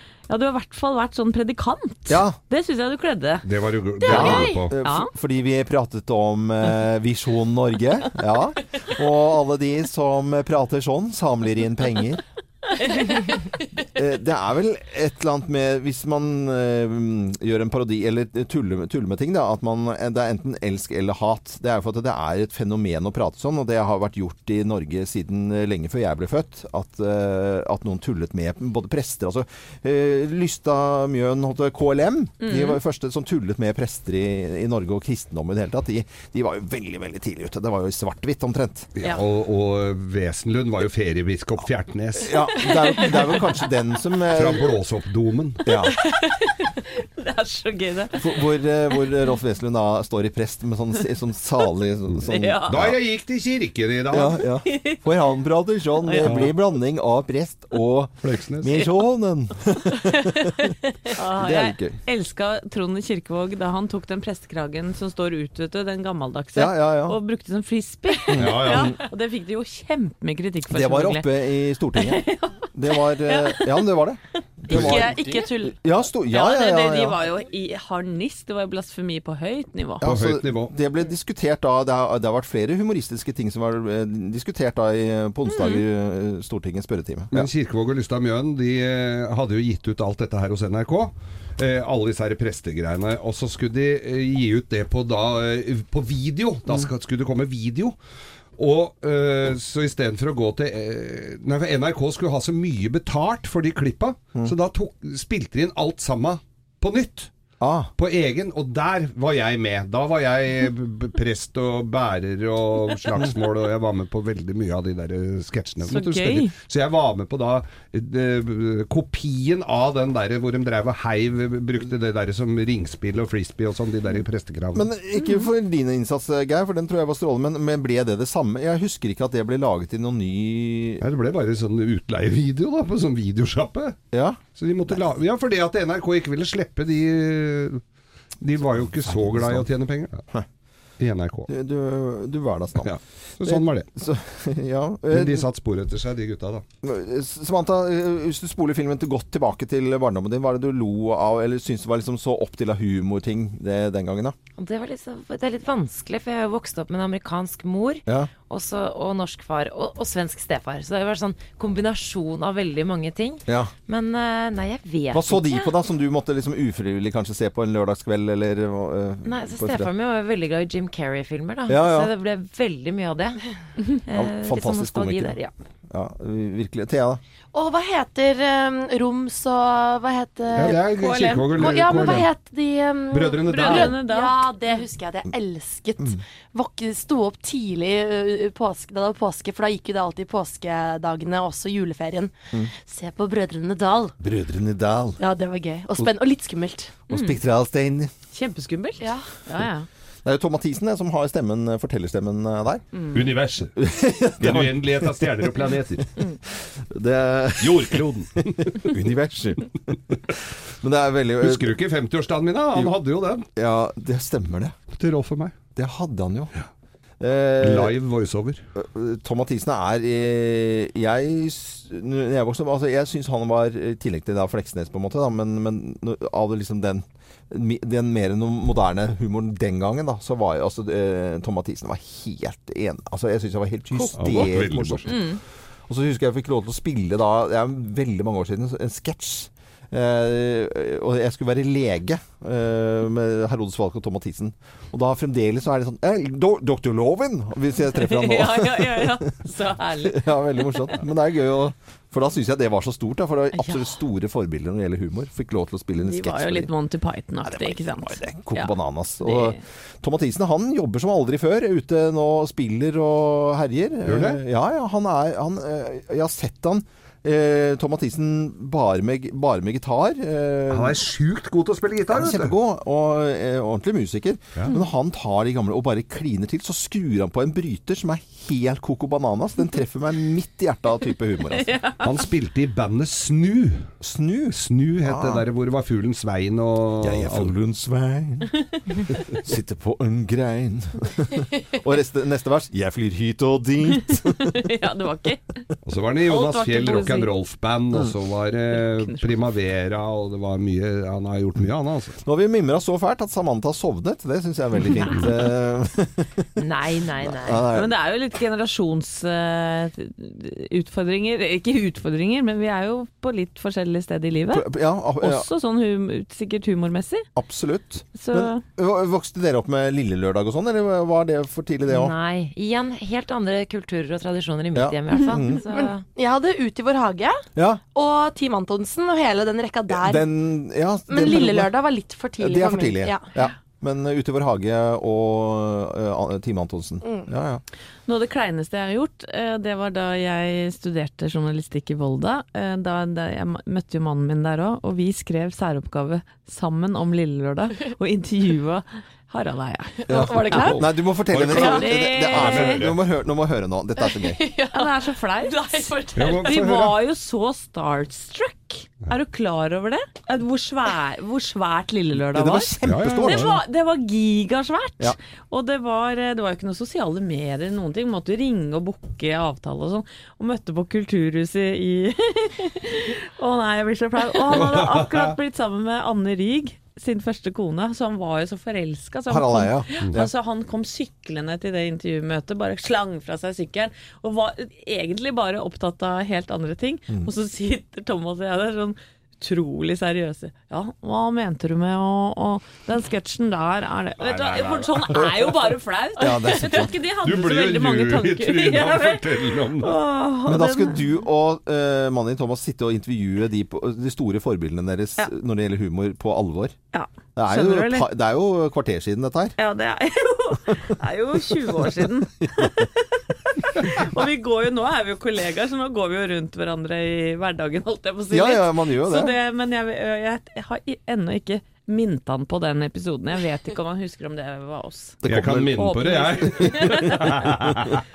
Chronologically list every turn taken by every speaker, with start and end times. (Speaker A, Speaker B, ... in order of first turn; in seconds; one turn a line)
Speaker A: 0.3-3.5
Speaker B: 2.1-2.4
Speaker C: 3.4-4.7
Speaker A: 4.0-5.1
Speaker B: 4.0-12.2
Speaker D: 4.2-4.6
Speaker A: 12.8-13.5
Speaker B: 13.8-38.9
Speaker A: 32.4-32.8
Speaker C: 39.0-42.4
Speaker B: 42.2-44.6
Speaker A: 42.5-43.6
Speaker C: 44.3-45.7
Speaker B: 45.7-46.0
Speaker A: 45.9-48.3
Speaker B: 48.1-53.0
Speaker A: 52.2-52.8
Speaker C: 52.7-54.4
Speaker B: 54.1-62.0
Speaker A: 54.6-55.3
Speaker A: 56.0-56.5
Speaker C: 56.2-56.5
Speaker C: 58.2-58.9
Speaker A: 60.1-71.3
Speaker B: 66.5-67.2
Speaker B: 68.3-69.0
Speaker C: 68.4-68.9
Speaker B: 70.7-75.2
Speaker A: 71.9-74.0
Speaker C: 74.7-75.1
Speaker A: 74.7-75.5
Speaker D: 74.7-75.8
Speaker B: 75.8-77.2
Speaker A: 76.2-80.1
Speaker B: 80.0-87.5
Speaker C: 80.0-80.7
Speaker A: 85.5-85.8
Speaker C: 87.3-98.0
Speaker C: 98.6-107.3
Speaker B: 107.6-107.9
Speaker C: 108.0-124.8
Speaker A: 115.8-116.5
Speaker B: 124.7-131.0
Speaker A: 125.2-125.5
Speaker C: 131.0-137.8
Speaker B: 134.1-135.0
Speaker C: 138.4-140.3
Speaker B: 139.1-139.7
Speaker C: 141.0-141.5
Speaker B: 141.5-145.4
Speaker C: 142.8-143.9
Speaker C: 145.1-146.6
Speaker B: 146.8-154.4
Speaker E: 154.6-165.7
Speaker B: 163.5-163.7
Speaker B: 165.1-169.9
Speaker E: 169.2-173.4
Speaker B: 171.7-172.1
Speaker E: 174.0-175.5
Speaker B: 174.1-175.4
Speaker B: 175.9-177.2
Speaker D: 177.5-194.1
Speaker C: 180.6-182.3
Speaker A: 181.7-182.2
Speaker C: 183.1-184.0
Speaker A: 183.4-184.4
Speaker B: 194.2-195.2
Speaker D: 195.2-197.0
Speaker B: 197.1-198.1
Speaker A: 197.1-197.4
Speaker A: 198.3-199.9
Speaker D: 199.0-199.4
Speaker B: 200.2-202.8
Speaker A: 202.9-203.2
Speaker C: 203.1-203.8
Speaker B: 203.8-205.7
Speaker C: 204.4-206.1
Speaker B: 206.5-211.7
Speaker C: 207.6-208.9
Speaker C: 211.4-213.5
Speaker B: 213.6-214.8
Speaker C: 214.9-215.6
Speaker B: 215.8-216.5
Speaker B: 217.2-217.9
Speaker C: 217.6-218.6
Speaker B: 218.8-235.3
Speaker C: 234.1-235.2
Speaker A: 235.1-235.4
Speaker B: 235.9-249.2
Speaker A: 247.9-251.0
Speaker B: 250.1-256.7
Speaker A: 253.5-254.0
Speaker A: 256.0-259.6
Speaker B: 257.4-271.0
Speaker C: 264.1-264.4
Speaker C: 270.7-272.5
Speaker B: 272.1-281.7
Speaker A: 281.5-282.1
Speaker C: 282.0-283.9
Speaker B: 284.0-285.4
Speaker C: 284.5-287.5
Speaker B: 287.0-288.5
Speaker B: 289.1-294.6
Speaker A: 294.3-295.6
Speaker C: 295.8-302.2
Speaker A: 296.3-297.3
Speaker A: 298.7-299.3
Speaker B: 302.2-306.5
Speaker A: 305.0-305.3
Speaker E: 306.6-307.7
Speaker B: 307.2-307.9
Speaker A: 307.7-317.3
Speaker B: 314.5-315.5
Speaker B: 317.4-322.1
Speaker A: 318.1-318.6
Speaker E: 321.9-326.0
Speaker B: 324.8-325.6
Speaker D: 325.8-330.3
Speaker B: 327.6-327.8
Speaker B: 329.9-331.7
Speaker D: 331.1-333.3
Speaker B: 332.4-337.6
Speaker A: 338.1-352.9
Speaker D: 350.1-350.8
Speaker B: 350.1-354.4
Speaker C: 351.3-353.0
Speaker D: 354.4-356.5
Speaker A: 354.7-401.1
Speaker C: 356.2-357.0
Speaker B: 362.3-363.6
Speaker C: 362.8-363.5
Speaker C: 374.5-375.4
Speaker B: 379.3-380.3
Speaker C: 394.2-395.5
Speaker B: 396.2-396.9
Speaker C: 397.2-400.0
Speaker B: 400.5-406.8
Speaker A: 406.9-408.1
Speaker B: 407.4-409.6
Speaker A: 409.6-425.2
Speaker B: 412.4-412.7
Speaker B: 418.3-419.3
Speaker B: 425.2-425.9
Speaker C: 425.3-428.0
Speaker A: 425.8-427.5
Speaker B: 426.4-427.7